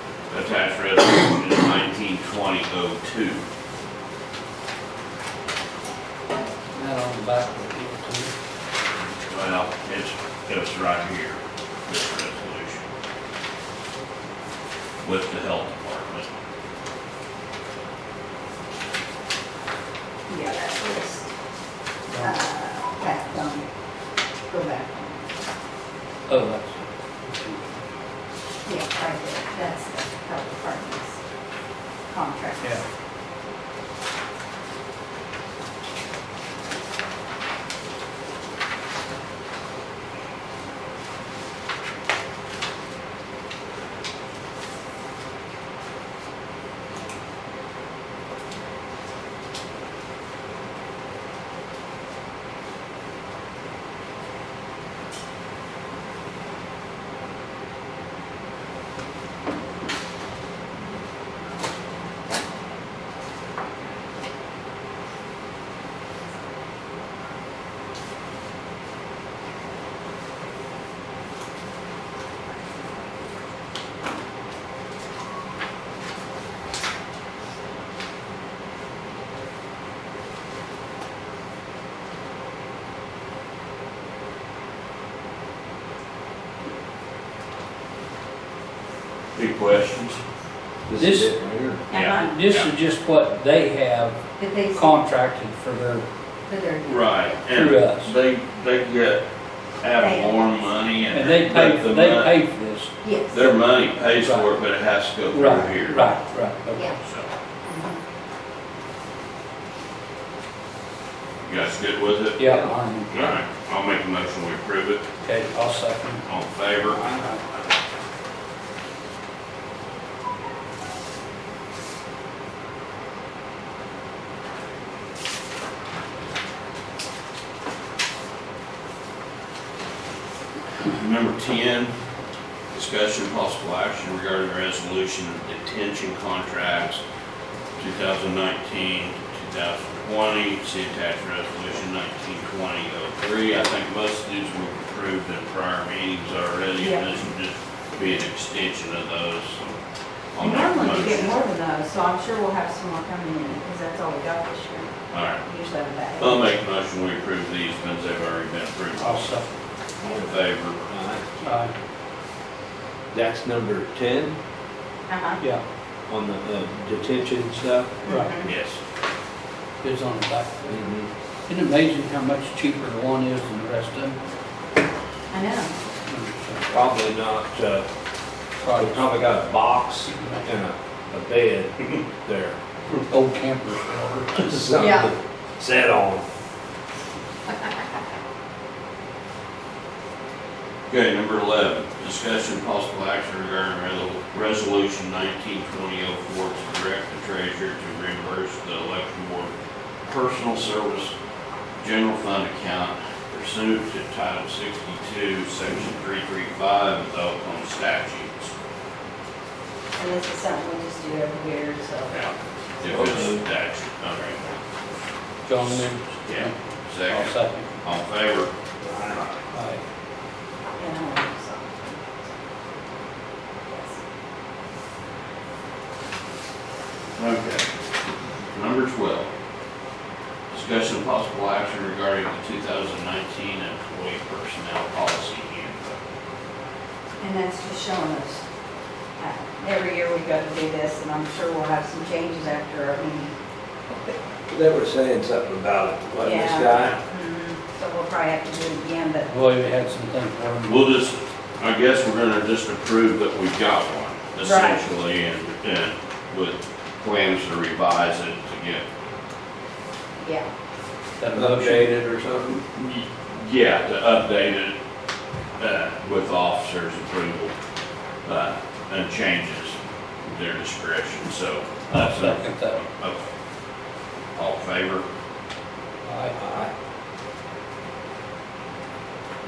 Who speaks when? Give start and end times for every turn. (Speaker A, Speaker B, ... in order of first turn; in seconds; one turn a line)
Speaker A: 0.3-3.4
Speaker B: 6.7-8.3
Speaker A: 9.2-12.9
Speaker A: 15.0-16.4
Speaker C: 20.3-21.3
Speaker C: 22.1-23.7
Speaker C: 24.5-25.3
Speaker B: 26.3-27.6
Speaker C: 28.7-31.2
Speaker C: 32.1-32.8
Speaker A: 89.3-90.2
Speaker D: 90.9-91.8
Speaker B: 91.0-91.3
Speaker C: 91.9-92.4
Speaker A: 91.9-92.7
Speaker B: 92.0-96.1
Speaker C: 94.4-95.0
Speaker C: 96.5-97.4
Speaker A: 96.8-99.2
Speaker B: 97.5-98.1
Speaker A: 99.8-102.4
Speaker C: 100.0-100.7
Speaker B: 101.1-102.9
Speaker C: 103.0-103.4
Speaker A: 103.3-106.1
Speaker B: 104.2-104.5
Speaker B: 105.3-106.9
Speaker C: 105.8-106.2
Speaker A: 107.0-107.3
Speaker C: 107.7-108.0
Speaker A: 111.4-115.0
Speaker B: 112.4-113.3
Speaker B: 115.2-116.2
Speaker A: 116.2-117.2
Speaker D: 116.9-117.3
Speaker A: 130.8-131.9
Speaker A: 132.7-137.0
Speaker A: 137.8-149.8
Speaker C: 146.8-147.1
Speaker A: 150.3-151.4
Speaker C: 150.4-156.5
Speaker A: 155.1-155.4
Speaker A: 156.2-159.4
Speaker B: 159.0-159.5
Speaker A: 160.1-160.8
Speaker D: 160.1-161.5
Speaker B: 161.4-161.7
Speaker D: 163.1-164.4
Speaker C: 165.1-165.4
Speaker D: 166.1-168.0
Speaker C: 168.0-168.5
Speaker B: 168.1-168.3
Speaker A: 168.4-168.8
Speaker B: 169.8-170.8
Speaker D: 170.7-171.1
Speaker B: 171.5-174.2
Speaker C: 175.3-175.8
Speaker B: 176.1-176.7
Speaker D: 176.7-177.9
Speaker B: 178.6-179.1
Speaker D: 178.7-182.6
Speaker B: 180.1-180.5
Speaker B: 182.9-184.7
Speaker D: 184.4-186.3
Speaker C: 184.8-185.1
Speaker A: 190.9-199.5
Speaker A: 200.1-201.2
Speaker A: 201.8-208.5
Speaker C: 210.0-212.2
Speaker A: 212.1-214.6
Speaker D: 212.9-213.4
Speaker B: 215.4-217.7
Speaker A: 216.2-218.5
Speaker D: 218.8-219.2
Speaker A: 219.1-219.4
Speaker B: 219.5-219.8
Speaker C: 220.8-222.2
Speaker C: 223.7-224.0
Speaker A: 227.2-227.7
Speaker A: 228.5-229.3
Speaker A: 230.5-236.0
Speaker C: 237.2-238.4
Speaker C: 239.2-243.3
Speaker C: 243.9-244.2
Speaker D: 244.5-247.0
Speaker C: 246.2-249.3
Speaker B: 249.3-250.9
Speaker A: 250.7-258.9
Speaker C: 254.4-254.8
Speaker C: 260.2-260.5
Speaker B: 261.2-261.9
Speaker D: 261.3-262.6
Speaker A: 262.7-264.8
Speaker A: 265.6-267.5
Speaker A: 268.2-273.3
Speaker B: 271.9-272.8
Speaker A: 274.4-275.1
Speaker B: 276.1-276.4
Speaker D: 276.4-276.7